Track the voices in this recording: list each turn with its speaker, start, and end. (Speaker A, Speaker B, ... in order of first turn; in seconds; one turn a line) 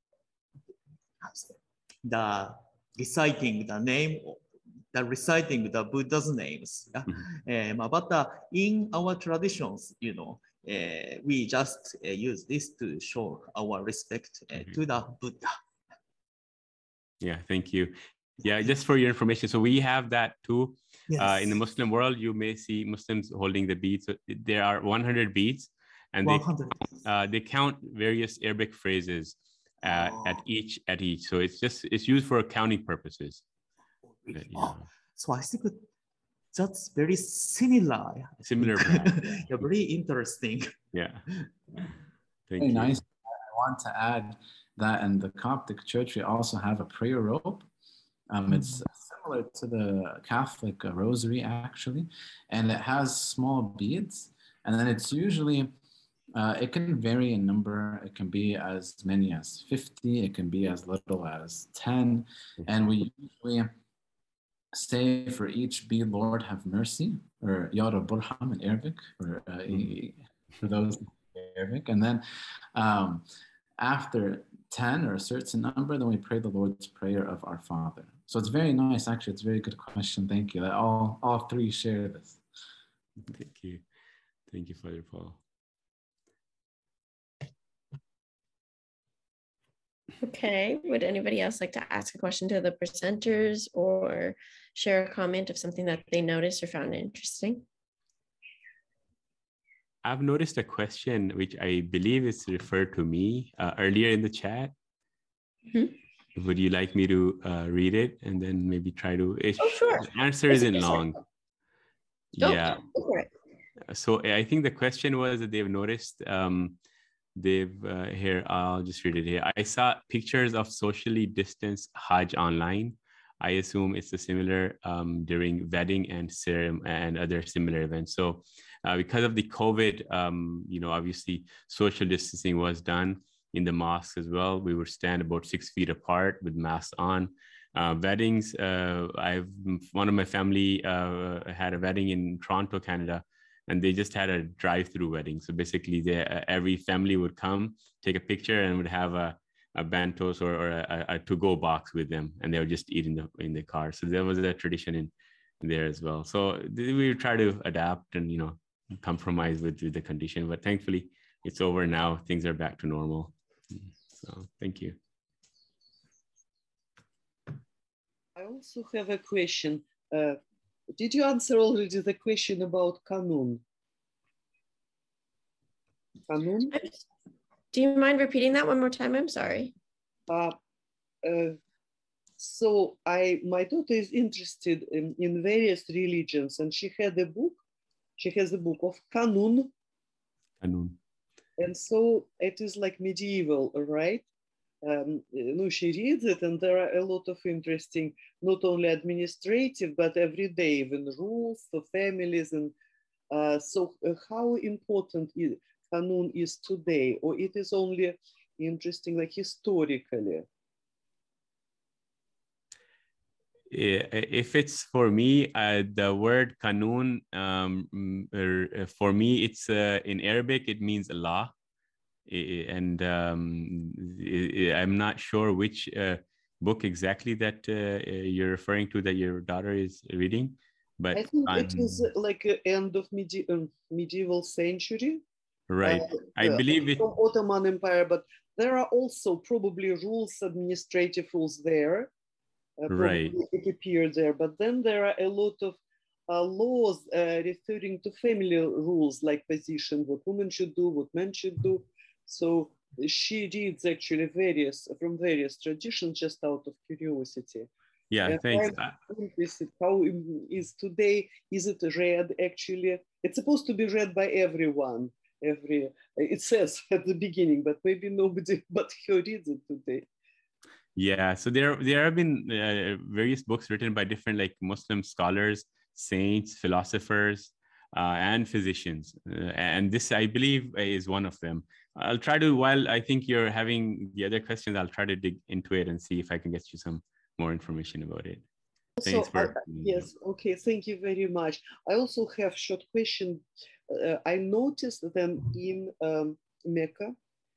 Speaker A: 1.2-15.6
Speaker B: 17.2-26.5
Speaker A: 21.1-21.6
Speaker A: 26.2-27.0
Speaker B: 27.0-33.4
Speaker A: 29.9-30.4
Speaker A: 34.1-35.9
Speaker B: 34.4-34.8
Speaker A: 36.5-40.7
Speaker B: 38.4-39.6
Speaker B: 40.9-41.2
Speaker B: 42.5-43.0
Speaker C: 42.6-47.6
Speaker C: 48.3-55.7
Speaker C: 56.3-63.7
Speaker C: 64.7-72.2
Speaker C: 72.7-73.2
Speaker C: 73.8-82.4
Speaker B: 83.2-83.8
Speaker B: 84.5-85.4
Speaker D: 90.2-97.6
Speaker B: 100.0-104.7
Speaker B: 106.4-111.2
Speaker D: 109.6-111.1
Speaker B: 112.3-112.8
Speaker D: 112.4-113.3
Speaker B: 113.9-116.8
Speaker B: 117.4-165.0
Speaker E: 168.4-170.4
Speaker E: 171.0-173.6
Speaker E: 176.3-176.8
Speaker D: 177.7-179.7
Speaker E: 180.3-180.6
Speaker E: 181.2-181.6
Speaker E: 182.4-187.6
Speaker E: 188.2-189.7
Speaker B: 190.6-191.0
Speaker E: 191.6-194.2
Speaker E: 194.8-202.7
Speaker E: 203.3-210.5
Speaker B: 213.7-221.5
Speaker B: 222.3-232.1
Speaker E: 231.1-235.2
Speaker B: 235.7-237.1
Speaker E: 235.8-242.1
Speaker E: 242.8-257.7
Speaker B: 242.9-243.3
Speaker B: 258.1-258.9
Speaker E: 258.2-270.1
Speaker B: 271.0-288.4
Speaker E: 289.0-297.2
Speaker B: 289.0-290.1